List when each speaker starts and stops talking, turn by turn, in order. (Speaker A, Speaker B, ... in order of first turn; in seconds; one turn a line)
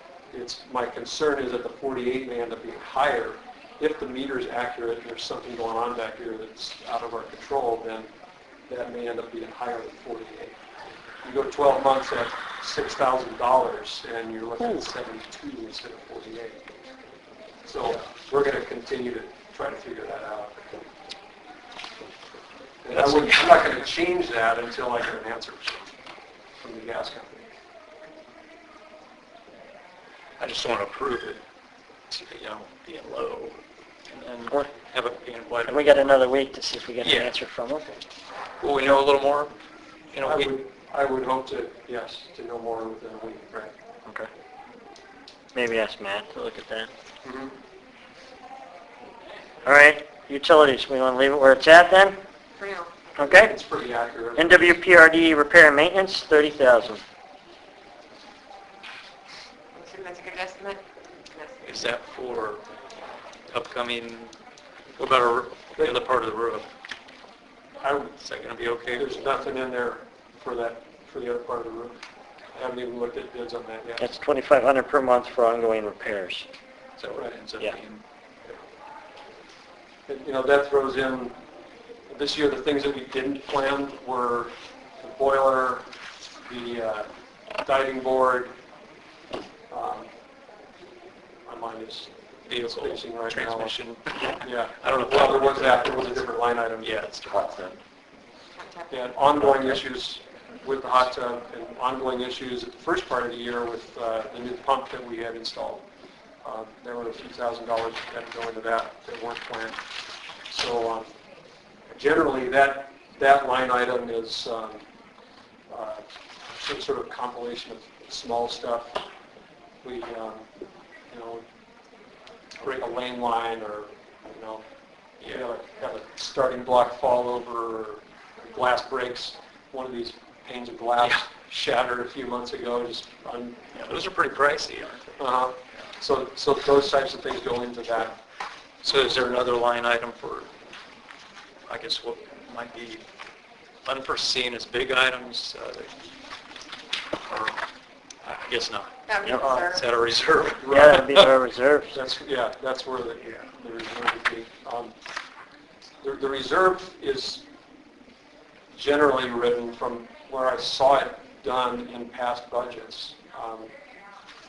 Speaker A: 0.3-8.1
Speaker A: 8.7-10.6
Speaker A: 11.2-16.6
Speaker A: 17.6-20.5
Speaker A: 22.8-25.8
Speaker B: 22.9-23.8
Speaker A: 26.6-27.5
Speaker B: 30.4-31.4
Speaker B: 32.1-35.8
Speaker C: 35.6-37.9
Speaker B: 37.0-37.3
Speaker B: 38.6-39.5
Speaker B: 40.1-40.5
Speaker A: 40.2-43.7
Speaker C: 45.5-46.9
Speaker A: 47.2-47.5
Speaker C: 49.6-52.2
Speaker D: 52.6-52.9
Speaker C: 53.1-53.6
Speaker A: 53.2-54.8
Speaker C: 54.4-57.0
Speaker D: 59.7-60.8
Speaker D: 61.3-61.6
Speaker B: 61.6-62.6
Speaker B: 63.5-64.3
Speaker B: 65.0-66.7
Speaker A: 67.8-68.2
Speaker B: 68.2-69.2
Speaker A: 68.9-72.0
Speaker A: 72.5-74.0
Speaker C: 74.0-76.5
Speaker B: 77.0-78.0
Speaker A: 80.1-81.3
Speaker A: 82.1-85.8
Speaker A: 86.5-87.1
Speaker A: 87.6-88.5
Speaker A: 89.7-90.1
Speaker A: 91.5-93.8
Speaker B: 92.5-96.2
Speaker A: 94.4-97.0
Speaker B: 96.8-97.8
Speaker A: 98.9-105.8
Speaker B: 99.4-99.8
Speaker A: 106.4-109.8
Speaker A: 110.5-111.1
Speaker A: 111.9-114.8
Speaker A: 115.7-116.0
Speaker A: 116.5-119.0
Speaker A: 119.8-120.5
Speaker A: 121.1-121.4
Speaker A: 122.6-124.6
Speaker A: 125.2-133.6
Speaker B: 133.7-135.1
Speaker A: 135.2-138.2
Speaker B: 138.8-140.5
Speaker B: 141.7-143.0
Speaker B: 143.8-145.9
Speaker B: 147.3-147.6
Speaker B: 148.2-148.9
Speaker D: 149.1-149.8
Speaker C: 149.2-149.5
Speaker B: 149.4-151.3
Speaker A: 150.6-151.0
Speaker C: 150.7-152.0
Speaker A: 151.9-154.9
Speaker A: 156.0-157.4
Speaker A: 158.7-163.7